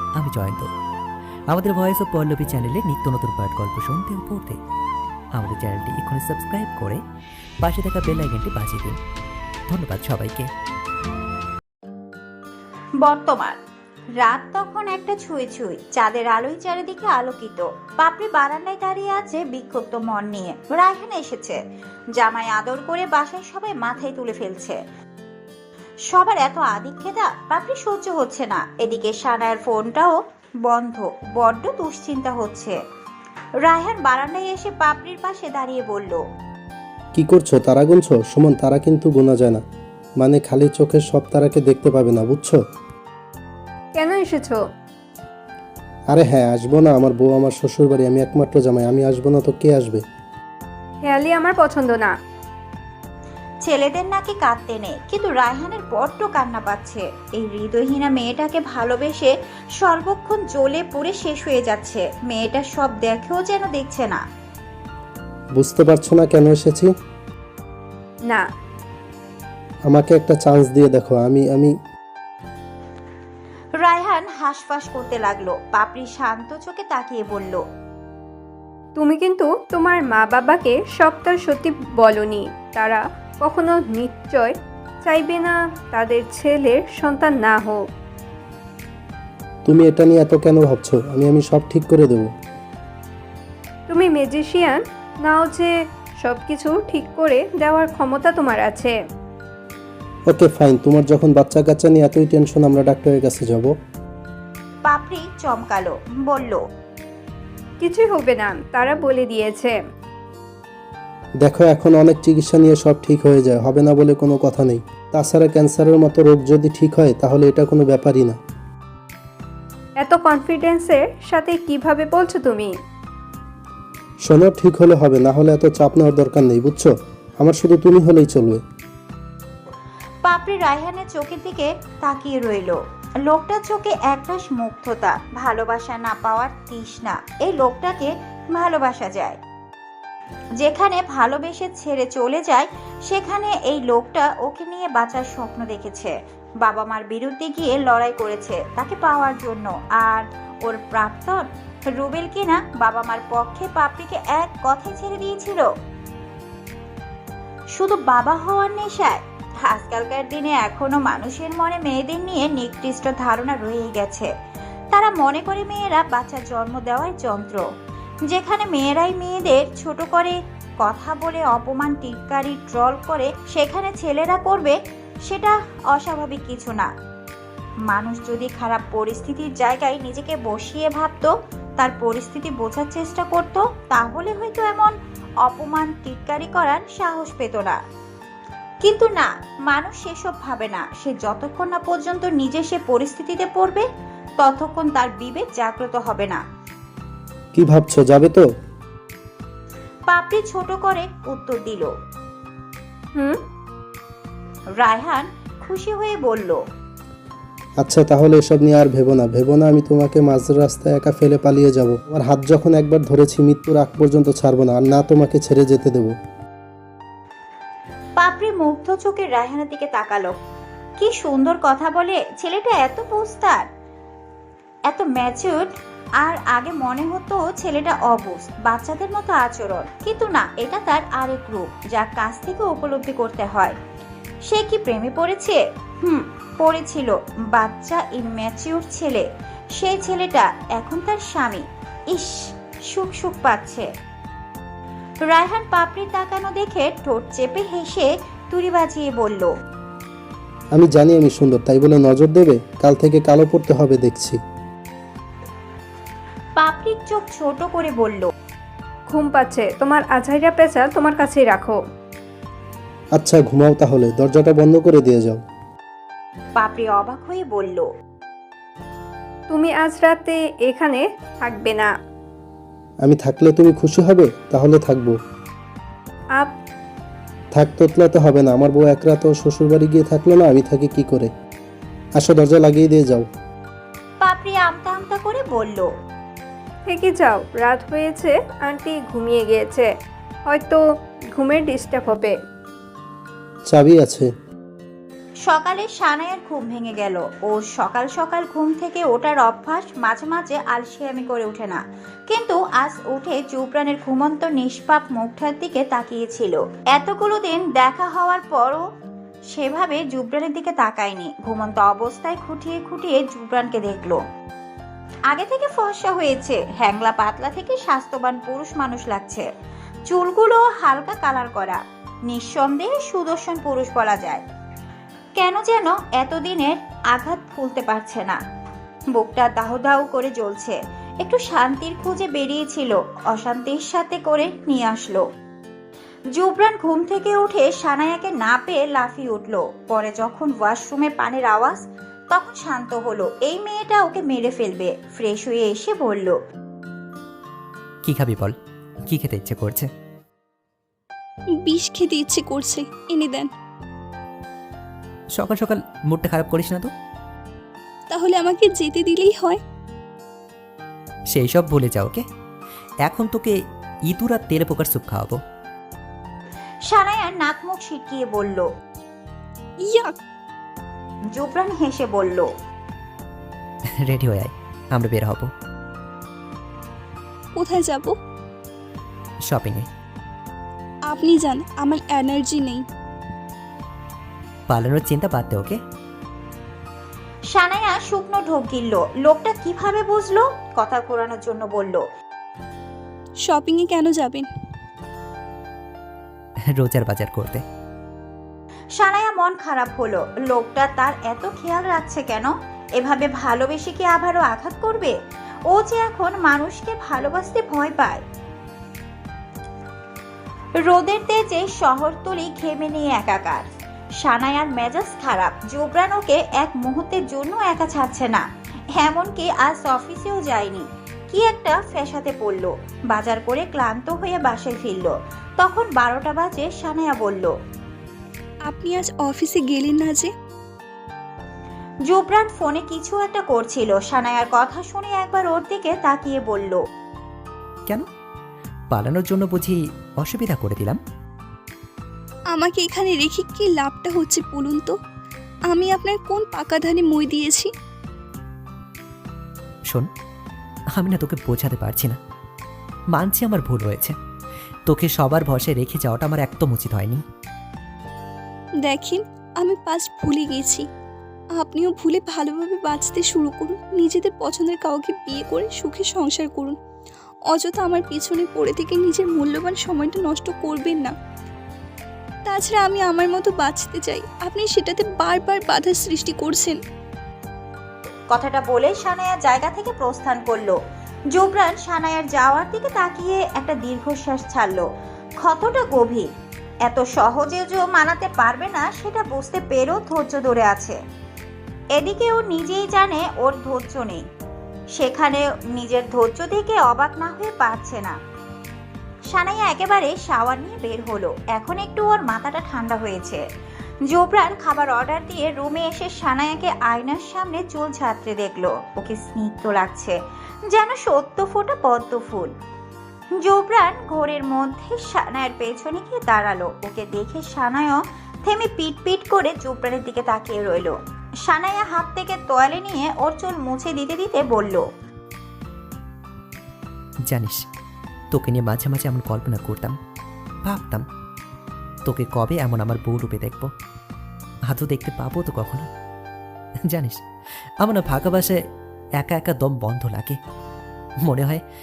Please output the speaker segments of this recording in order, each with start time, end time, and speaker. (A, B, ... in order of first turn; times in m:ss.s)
0:00.2-0:00.7 A
0:01.5-0:04.6 A
0:05.4-0:07.0 A
0:07.6-0:09.0 A
0:09.7-0:10.5 A
0:13.0-0:13.6 B
0:14.2-0:21.6 B
0:22.2-0:24.8 B
0:26.1-0:32.8 B
0:33.6-0:36.2 B
0:37.2-0:39.6 C
0:40.2-0:42.6 C
0:43.9-0:44.6 D
0:46.1-0:50.0 C
0:51.0-0:52.1 D
0:53.6-1:04.2 B
1:05.6-1:06.9 C
1:09.9-1:11.7 C
1:13.8-1:17.6 B
1:19.0-1:24.5 D
1:25.0-1:27.8 D
1:29.6-1:32.3 C
1:33.9-1:35.7 D
1:36.2-1:38.9 D
1:40.3-1:43.7 C
1:44.8-1:46.6 B
1:47.8-1:49.7 D
1:51.4-1:58.4 C
2:00.0-2:02.7 D
2:04.2-2:08.6 C
2:10.2-2:19.4 B
2:20.6-2:26.1 B
2:26.6-2:35.7 B
2:37.8-2:44.3 B
2:44.9-2:47.6 B
2:48.3-2:56.9 B
2:57.9-3:04.9 B
3:05.4-3:07.8 B
3:08.8-3:13.8 B
3:14.4-3:16.4 B
3:17.5-3:18.4 C
3:20.1-3:21.9 B
3:24.8-3:26.6 B
3:27.8-3:36.1 C
3:38.2-3:40.3 B
3:41.0-3:43.6 B
3:44.9-3:53.7 B
3:54.5-4:03.9 B
4:05.2-4:09.5 B
4:10.7-4:14.4 C
4:16.6-4:18.3 B
4:19.1-4:21.8 D
4:23.2-4:25.4 C
4:26.6-4:27.9 B
4:29.5-4:31.9 D
4:33.0-4:35.2 C
4:37.5-4:41.3 C
4:42.2-4:43.2 C
4:44.2-4:45.9 B
4:46.9-4:49.9 D
4:50.5-4:50.8 D
4:51.4-4:52.3 D
4:53.7-4:54.3 C
4:55.4-5:08.8 B
5:09.5-5:14.2 B
5:15.3-5:19.4 B
5:20.1-5:24.4 B
5:25.4-5:28.4 B
5:29.1-5:35.2 B
5:36.3-5:41.8 B
5:42.3-5:46.4 B
5:48.0-5:48.6 A
5:49.1-5:49.9 A
5:51.6-5:53.5 E
5:55.3-5:56.9 A
5:58.1-5:59.6 E
6:01.3-6:02.2 A
6:03.0-6:03.5 A
6:04.1-6:05.4 A
6:06.9-6:08.7 B
6:09.8-6:10.1 E
6:11.3-6:12.5 B
6:14.0-6:15.5 A
6:17.6-6:18.2 E
6:19.4-6:19.9 A
6:21.1-6:22.8 E
6:24.7-6:25.8 A
6:27.5-6:32.0 B
6:33.4-6:34.5 E
6:36.7-6:37.6 A
6:39.0-6:45.1 B
6:45.7-6:48.2 B
6:50.8-6:53.6 B
6:54.2-6:58.4 B
6:59.0-7:07.5 B
7:08.7-7:10.3 E
7:12.1-7:16.8 B
7:18.9-7:21.0 A
7:22.5-7:25.0 E
7:25.7-7:27.7 E
7:30.9-7:32.2 A
7:33.1-7:34.2 A
7:34.9-7:37.2 A
7:38.8-7:40.8 E
7:41.6-7:46.8 E
7:47.5-7:51.1 E
7:52.5-7:56.8 E
7:58.3-8:00.8 B
8:01.3-8:04.8 B
8:05.4-8:06.3 B
8:06.8-8:11.0 B
8:11.9-8:14.2 B
8:15.0-8:18.2 B
8:19.3-8:23.4 B
8:24.1-8:30.2 B
8:30.7-8:32.5 B
8:33.4-8:41.0 B
8:41.5-8:44.8 B
8:47.2-8:47.6 A
8:48.3-8:50.0 A
8:50.6-8:51.0 A
8:52.0-8:53.7 A
8:54.7-8:55.9 A
8:56.9-8:57.2 A
8:57.8-8:58.6 A
8:59.2-9:00.4 A
9:01.2-9:01.6 A